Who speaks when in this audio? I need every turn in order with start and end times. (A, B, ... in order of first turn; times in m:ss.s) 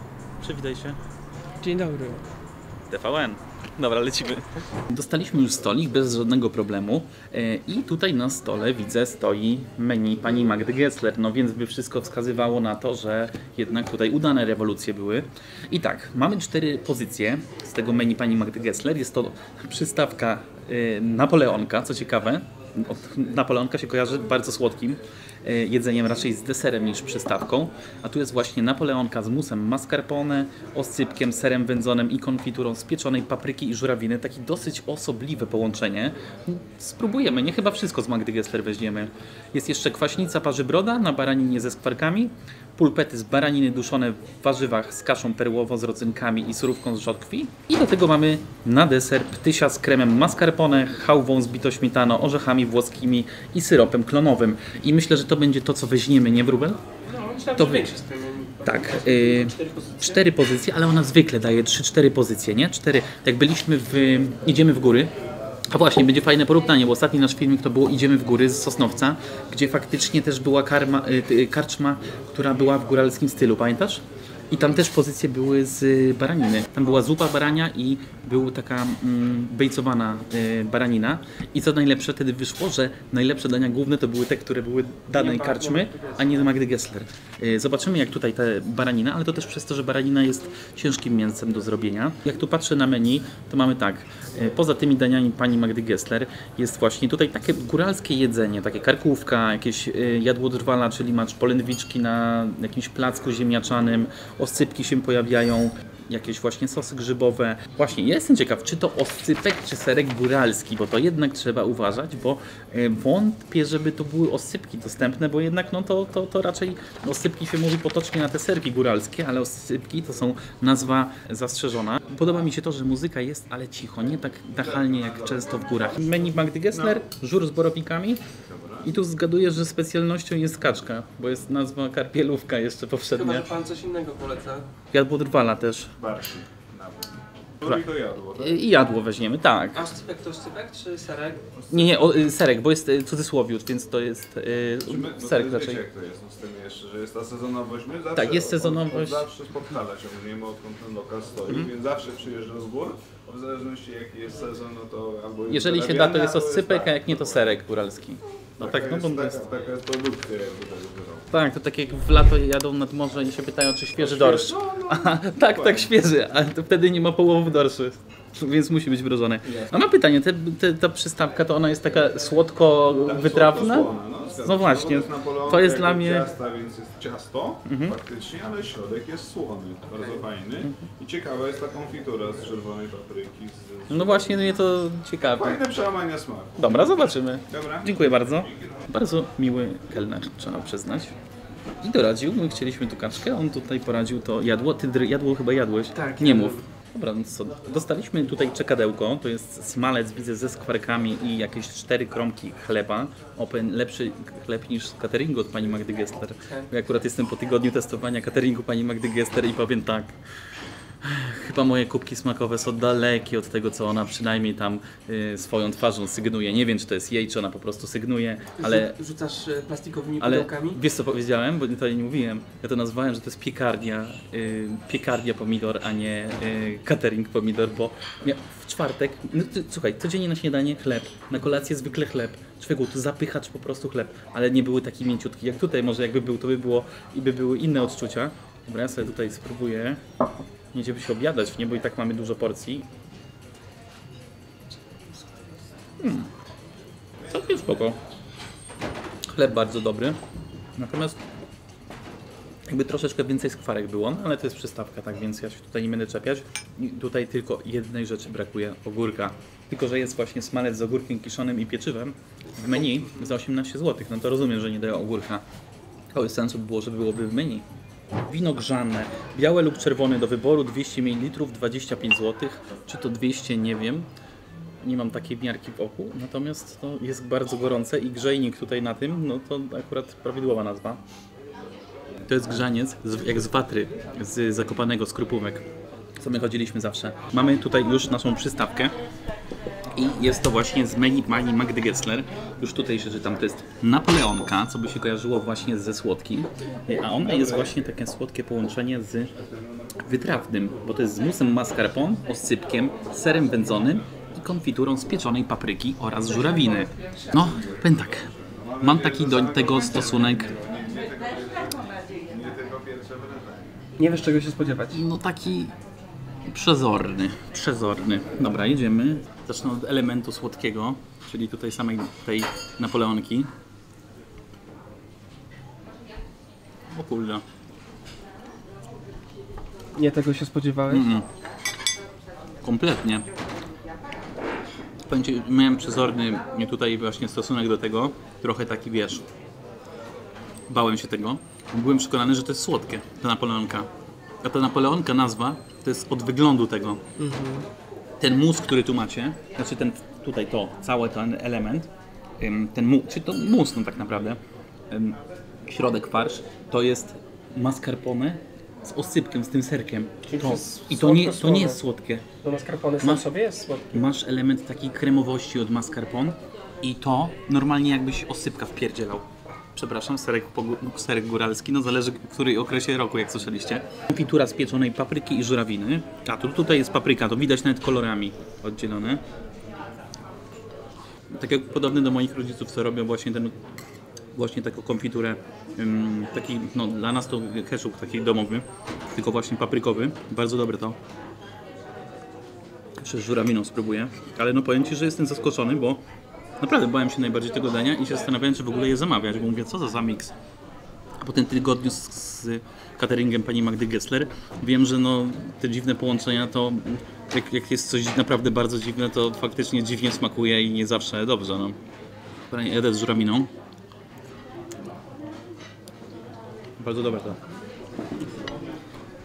0:00.4-0:01.0 A
0:01.6-0:02.2 B
0:02.9-0:56.8 A
0:57.0-1:00.2 B
0:57.6-0:57.9 A
0:58.6-1:05.1 A
1:05.7-2:08.2 A
1:25.1-1:26.5 B
2:04.5-2:07.0 C
2:08.4-2:08.9 C
2:08.8-2:13.5 A
2:13.1-2:14.6 B
2:14.9-2:15.9 A
2:16.0-2:18.6 C
2:18.4-2:19.8 A
2:19.7-2:21.5 B
2:21.6-2:22.1 C
2:21.7-2:25.8 A
2:24.8-2:37.6 C
2:28.1-2:29.2 A
2:35.5-2:39.4 A
2:38.6-2:41.3 C
2:41.3-2:56.3 A
2:44.0-2:45.9 C
2:53.0-3:04.5 C
2:57.6-2:57.9 A
3:03.9-3:05.6 A
3:05.4-3:07.0 C
3:06.6-3:11.1 A
3:07.5-3:08.7 C
3:11.8-3:30.1 A
3:15.9-3:16.6 B
3:31.0-3:38.9 A
3:38.6-3:40.8 B
3:40.2-4:00.0 A
4:00.7-4:02.8 A
4:06.0-4:06.3 A
4:07.3-4:08.0 A
4:09.3-4:10.2 A
4:10.8-4:11.2 A
4:12.7-4:25.4 A
4:26.1-4:27.6 A
4:28.3-4:34.1 A
4:34.8-4:41.0 A
4:42.2-4:45.6 A
4:46.2-4:48.9 A
4:50.0-4:59.3 A
4:57.1-4:57.8 C
4:59.3-5:00.0 C
5:00.0-5:08.3 A
5:08.3-5:13.7 C
5:08.8-5:10.5 A
5:14.0-5:15.0 B
5:14.9-5:15.7 A
5:16.5-5:23.5 A
5:26.9-5:27.4 A
5:29.9-5:31.0 B
5:30.9-5:31.2 A
5:32.6-5:33.2 A
5:35.1-5:39.2 A
5:40.7-5:43.9 A
5:44.4-5:47.0 A
5:47.2-5:47.6 B
5:48.2-5:51.9 A
5:52.4-5:54.4 A
5:54.9-6:02.2 A
6:00.3-6:01.8 B
6:02.4-6:04.1 B
6:03.9-6:19.2 A
6:21.3-6:23.5 A
6:24.4-6:31.0 A
6:33.0-6:36.0 A
6:36.6-6:40.3 A
6:41.2-6:51.8 A
6:52.5-6:53.5 A
6:56.8-6:57.4 A